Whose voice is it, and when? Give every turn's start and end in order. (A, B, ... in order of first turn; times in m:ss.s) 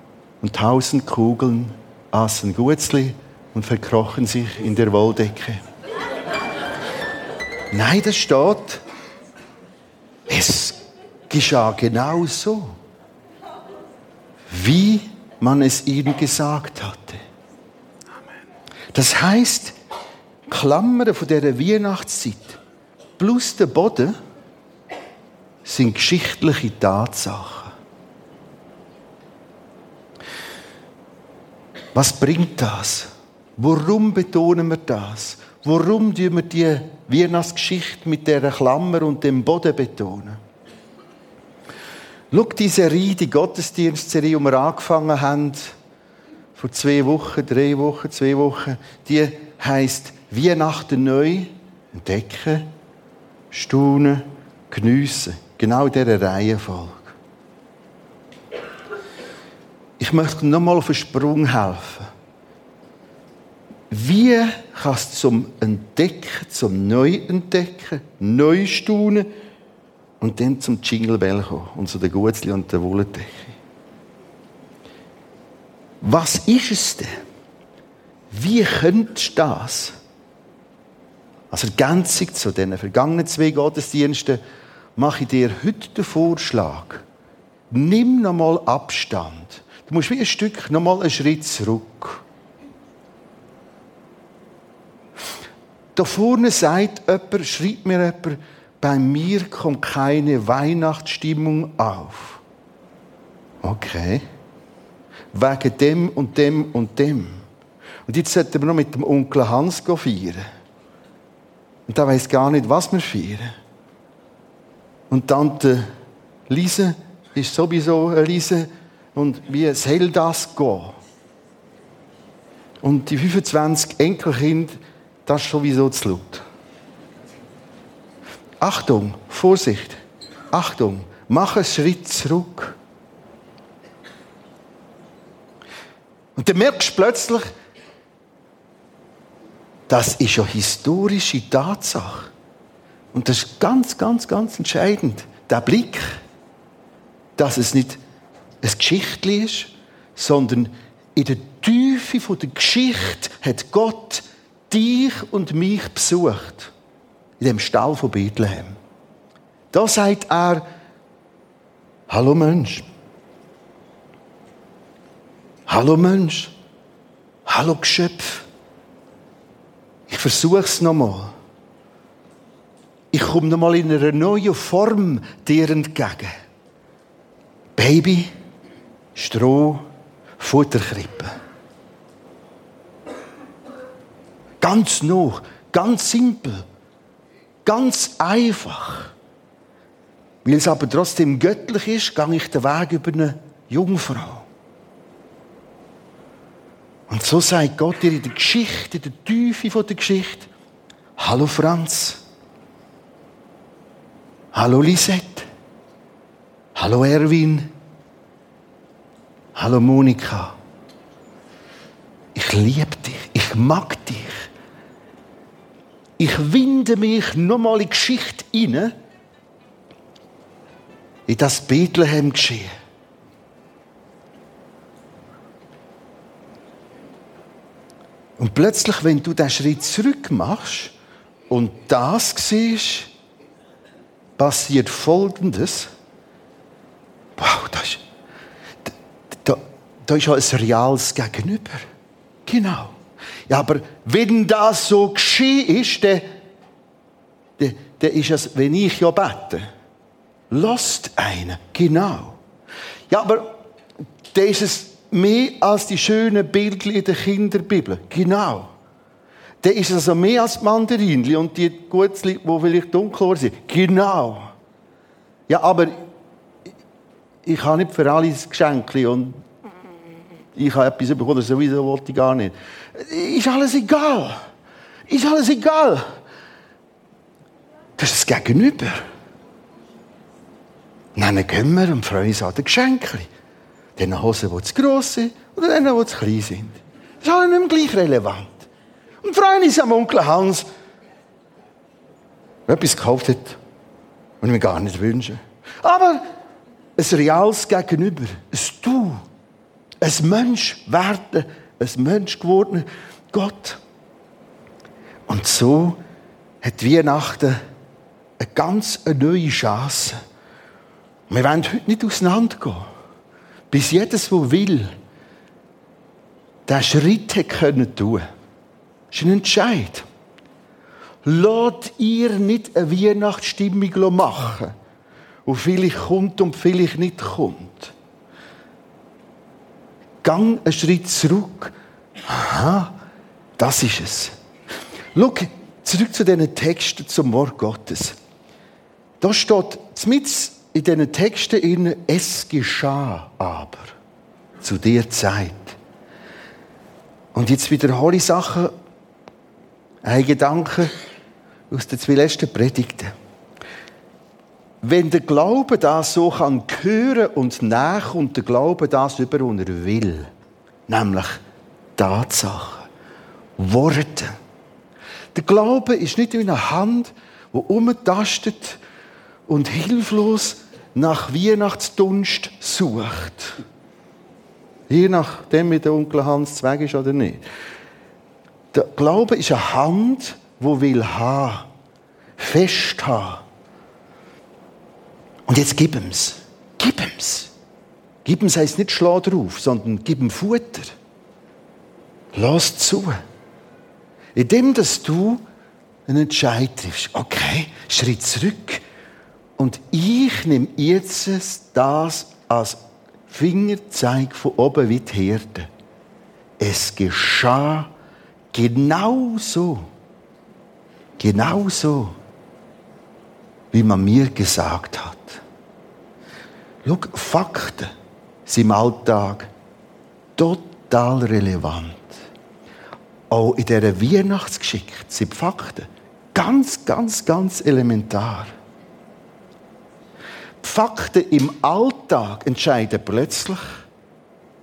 0:00.4-0:05.6 A
0:07.7-0:08.8 A
0:10.3-0:12.8 A
0:14.5-0:17.2 A
0:18.9-0:19.8 A
0:20.5-0:22.6 A
0:23.2-0:24.2 A
0:25.6-0:27.7 A
0:31.9-0:40.4 A
0:42.3-0:45.8 A
0:46.6-0:52.7 A
0:53.5-0:57.2 A
1:00.0-1:02.1 A
1:03.9-1:09.3 A
1:10.2-1:13.6 A
1:16.0-1:17.1 A
1:18.3-1:20.0 A
1:21.5-1:24.4 A
1:25.0-1:27.0 A
1:27.7-1:32.2 A
1:36.0-1:42.4 A
1:43.6-1:44.2 A
1:45.3-1:47.5 A
1:48.1-1:50.4 A
1:51.9-1:53.6 A
1:55.1-1:55.9 A
1:56.5-2:01.0 A
2:02.8-2:06.4 A
2:08.6-2:10.0 A
2:10.5-2:12.8 A
2:16.4-2:17.5 A
2:19.9-2:22.3 A
2:23.1-2:26.2 A
2:27.4-2:28.0 A
2:28.6-2:36.7 A
2:37.4-2:38.8 A
2:39.7-2:40.7 A
2:42.1-2:42.9 A
2:45.7-2:46.5 A
2:47.5-2:48.5 A
2:50.1-2:51.3 A
2:53.1-2:56.3 A
2:57.8-2:58.3 A
2:59.2-2:59.8 A
3:00.4-3:01.3 A
3:04.6-3:06.7 A
3:07.7-3:09.1 A
3:10.4-3:14.5 A
3:17.1-3:20.5 A
3:21.2-3:22.2 A
3:24.5-3:25.5 A
3:26.8-3:27.7 A
3:29.6-3:30.6 A
3:32.4-3:34.5 A
3:36.2-3:38.9 A
3:41.3-3:42.7 A
3:48.4-3:51.0 A
3:51.5-3:53.1 A
3:54.4-3:55.9 A
3:57.4-3:58.0 A
3:58.9-4:01.8 A
4:02.5-4:03.0 A
4:03.5-4:06.3 A
4:07.6-4:09.7 A
4:10.5-4:12.4 A
4:13.1-4:13.6 A
4:14.3-4:18.7 A
4:19.6-4:24.5 A
4:25.5-4:26.0 A
4:27.4-4:29.4 A
4:30.6-4:34.4 A
4:35.1-4:36.1 A
4:38.0-4:39.0 A
4:41.2-4:43.3 A
4:44.0-4:48.7 A
4:49.2-4:50.7 A
4:52.7-4:53.6 A
4:54.4-4:56.2 A
4:57.0-4:59.2 A
5:00.0-5:03.8 A
5:05.3-5:06.0 A
5:06.6-5:07.6 A
5:08.4-5:10.2 A
5:11.3-5:12.9 A
5:13.7-5:14.9 A
5:16.7-5:18.3 A
5:19.1-5:20.1 A
5:21.2-5:24.8 A
5:25.5-5:28.0 A
5:30.2-5:31.7 A
5:32.3-5:33.0 A
5:33.6-5:34.4 A
5:35.1-5:38.2 A
5:39.2-5:43.9 A
5:44.6-5:45.8 A
5:47.3-5:48.7 A
5:50.0-5:50.9 A
5:51.7-5:53.1 A
5:54.8-6:00.3 A
6:00.9-6:01.4 A
6:02.0-6:02.9 A
6:03.6-6:04.4 A
6:05.3-6:08.8 A
6:09.5-6:13.6 A
6:14.9-6:17.4 A
6:18.7-6:21.7 A
6:22.4-6:23.4 A
6:25.5-6:27.5 A
6:28.2-6:31.0 A
6:32.3-6:33.2 A
6:34.4-6:35.4 A
6:36.1-6:38.8 A
6:39.6-6:45.7 A
6:46.6-6:47.9 A
6:48.5-6:49.9 A
6:51.2-6:52.2 A
6:53.7-6:55.4 A
6:56.8-6:57.9 A
6:58.5-6:59.5 A
7:00.4-7:02.2 A
7:03.3-7:08.5 A
7:10.6-7:13.8 A